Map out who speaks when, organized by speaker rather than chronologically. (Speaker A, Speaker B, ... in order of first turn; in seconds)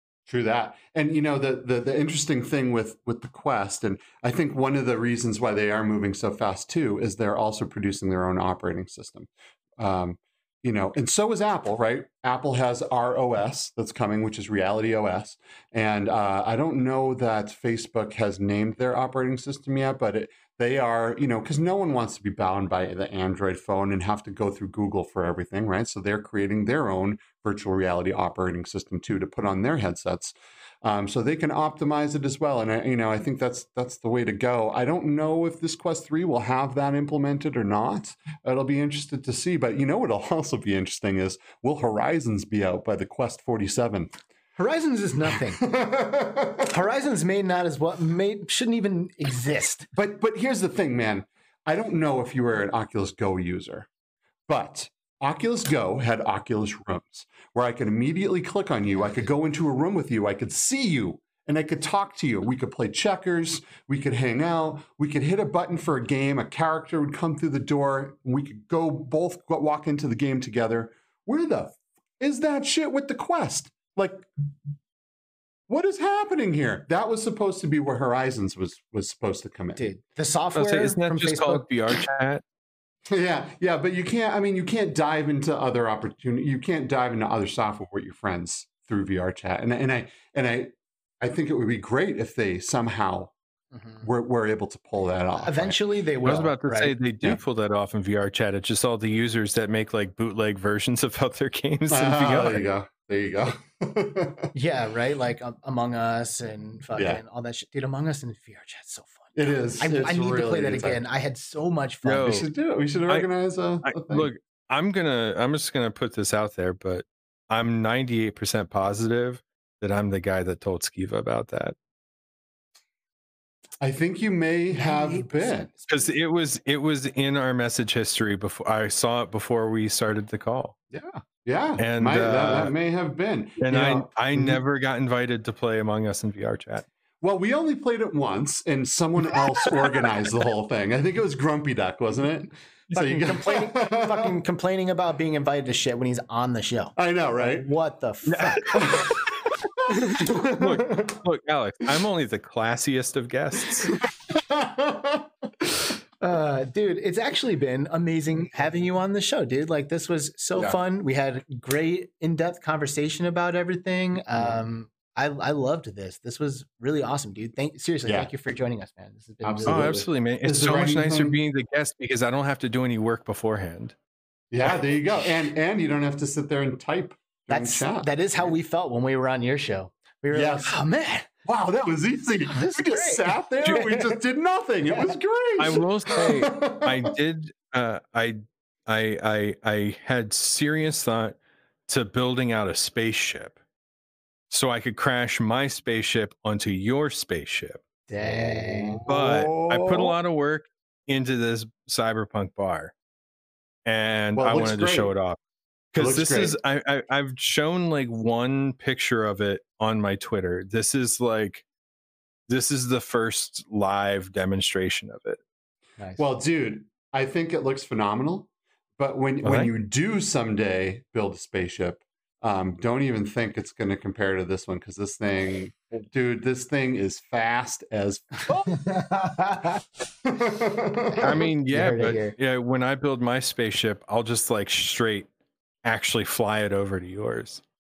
Speaker A: 0.3-44.1, 45.6-46.7, 49.9-53.9, 54.5-74.3, 75.7-79.8, 83.1-93.3, 94.0-95.8, 101.9-104.5, 107.0-107.2, 109.3-111.0, 112.2-114.3, 123.8-125.7, 130.9-134.6, 137.2-144.3, 147.0-147.7, 148.7-149.3, 149.9-151.2, 154.3-155.7, 168.1-168.3, 169.4-171.4, 174.5-178.5, 180.3-180.8, 181.4-187.1, 198.7-200.2, 204.3-205.1, 206.0-206.6, 216.2-229.1, 230.2-231.5
Speaker B: 44.6-45.6, 46.7-49.9, 59.0-59.2, 79.8-81.7, 93.7-94.1, 95.4-97.4, 104.5-112.5, 124.7-126.0, 142.9-149.1, 156.2-170.0, 177.5-181.3, 182.5-183.4, 198.1-199.0, 228.7-229.8, 231.1-232.3
Speaker C: 80.6-82.4, 96.2-102.6, 112.0-112.5, 113.8-121.8, 125.9-130.8, 131.8-132.7, 133.6-136.9, 148.3-148.7, 150.4-153.9, 169.7-173.9, 183.6-184.0, 185.6-191.4, 191.9-193.6, 194.5-197.8, 199.1-202.9, 203.9-205.4, 205.9-211.7, 212.5-215.4, 219.4-219.7, 231.2-235.3, 235.8-237.6